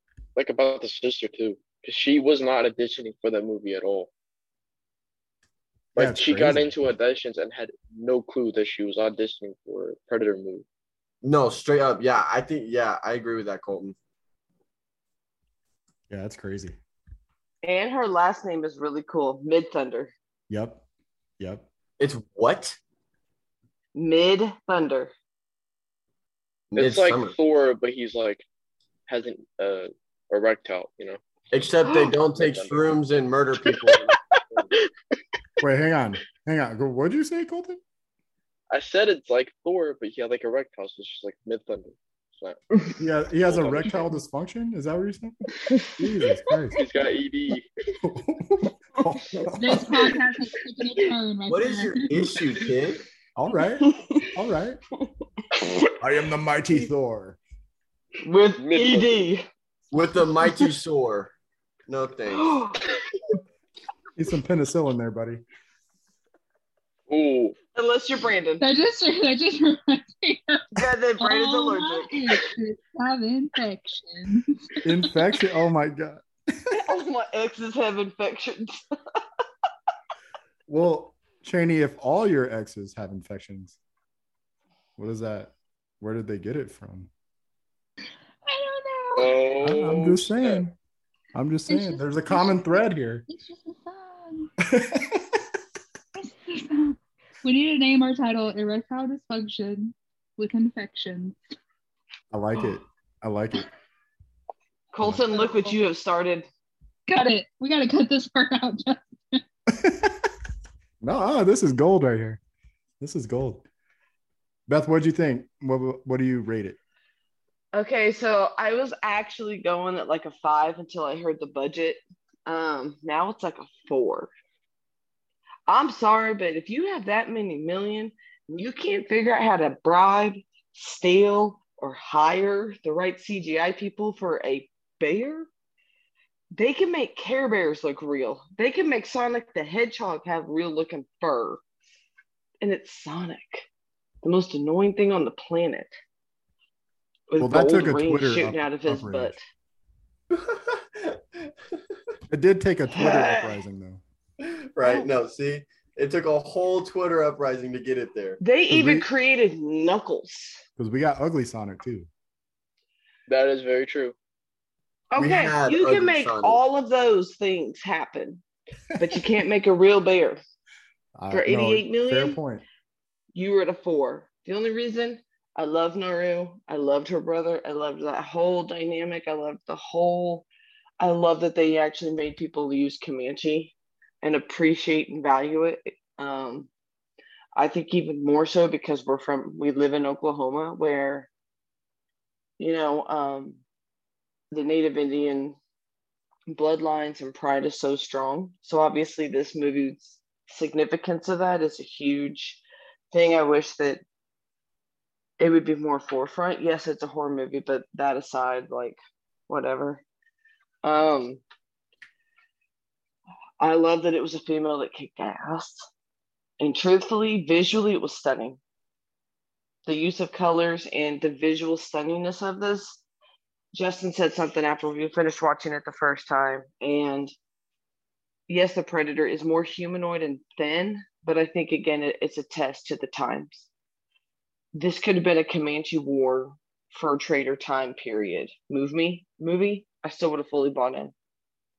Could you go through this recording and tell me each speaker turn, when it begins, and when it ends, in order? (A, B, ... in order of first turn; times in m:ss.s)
0:00.4-0:04.1 A
0:06.0-0:06.7 B
0:06.0-0:10.6 A
0:11.2-0:14.0 C
0:16.1-0:16.8 B
0:17.6-0:20.1 D
0:20.5-0:20.8 B
0:21.4-0:21.7 B
0:22.0-0:22.8 C
0:24.0-0:25.1 D
0:26.7-0:28.4 A
0:26.8-0:27.4 C
0:29.1-0:31.2 A
0:31.5-0:34.7 C
0:31.9-0:32.1 D
0:32.4-0:33.0 A
0:35.6-0:37.8 B
0:38.7-0:42.6 A
0:43.0-0:45.4 B
0:43.5-0:44.1 A
0:46.0-0:46.8 B
0:46.7-0:47.7 A
0:48.0-0:49.8 B
0:49.1-0:50.1 D
0:49.6-0:52.1 E
0:51.5-0:53.0 C
0:53.4-0:54.8 B
0:53.8-0:54.3 D
0:55.5-0:55.9 D
0:56.0-0:57.4 B
0:58.2-0:59.5 D
0:58.6-0:59.2 A
0:59.9-1:01.3 C
1:01.9-1:02.6 C
1:02.3-1:03.0 D
1:04.2-1:05.4 B
1:07.1-1:07.6 A
1:07.8-1:08.6 D
1:08.6-1:15.1 E
1:10.8-1:12.4 D
1:14.8-1:16.9 B
1:16.7-1:18.8 D
1:20.7-1:23.8 B
1:25.0-1:27.1 B
1:28.4-1:29.3 E
1:29.2-1:30.6 A
1:29.6-1:30.7 B
1:31.4-1:33.2 B
1:31.7-1:34.5 E
1:34.6-1:35.4 B
1:36.2-1:41.4 E
1:42.3-1:43.7 B
1:44.9-1:46.5 D
1:45.3-1:45.7 E
1:47.1-1:49.4 E
1:49.7-1:50.3 B
1:51.0-1:52.4 B
1:53.0-1:53.7 B
1:54.7-1:56.8 B
1:57.7-2:04.3 D
2:05.7-2:15.5 D
2:16.5-2:21.6 D
2:22.6-2:23.7 D
2:24.2-2:25.9 D
2:27.3-2:29.4 D
2:27.4-2:29.4 B
2:30.3-2:31.2 C
2:32.3-2:34.0 B
2:33.0-2:33.6 D
2:34.8-2:38.4 C
2:34.8-2:35.1 D
2:38.4-2:40.6 D
2:38.7-2:39.1 B
2:40.8-2:42.1 B
2:43.3-2:44.2 A
2:45.1-2:48.4 D
2:45.2-2:46.6 C
2:49.0-2:50.4 D
2:51.2-2:52.6 B
2:51.3-2:52.4 D
2:53.3-3:00.5 D
3:01.0-3:06.7 D
3:07.6-3:11.3 D
3:12.6-3:13.6 D
3:14.5-3:15.6 D
3:16.5-3:22.6 D
3:23.1-3:24.0 D
3:25.4-3:30.0 D
3:30.8-3:31.4 D
3:33.6-3:35.9 D
3:36.6-3:38.6 D
3:39.9-3:43.0 D
3:43.7-3:47.3 D
3:48.5-3:53.7 D
3:54.7-4:01.1 D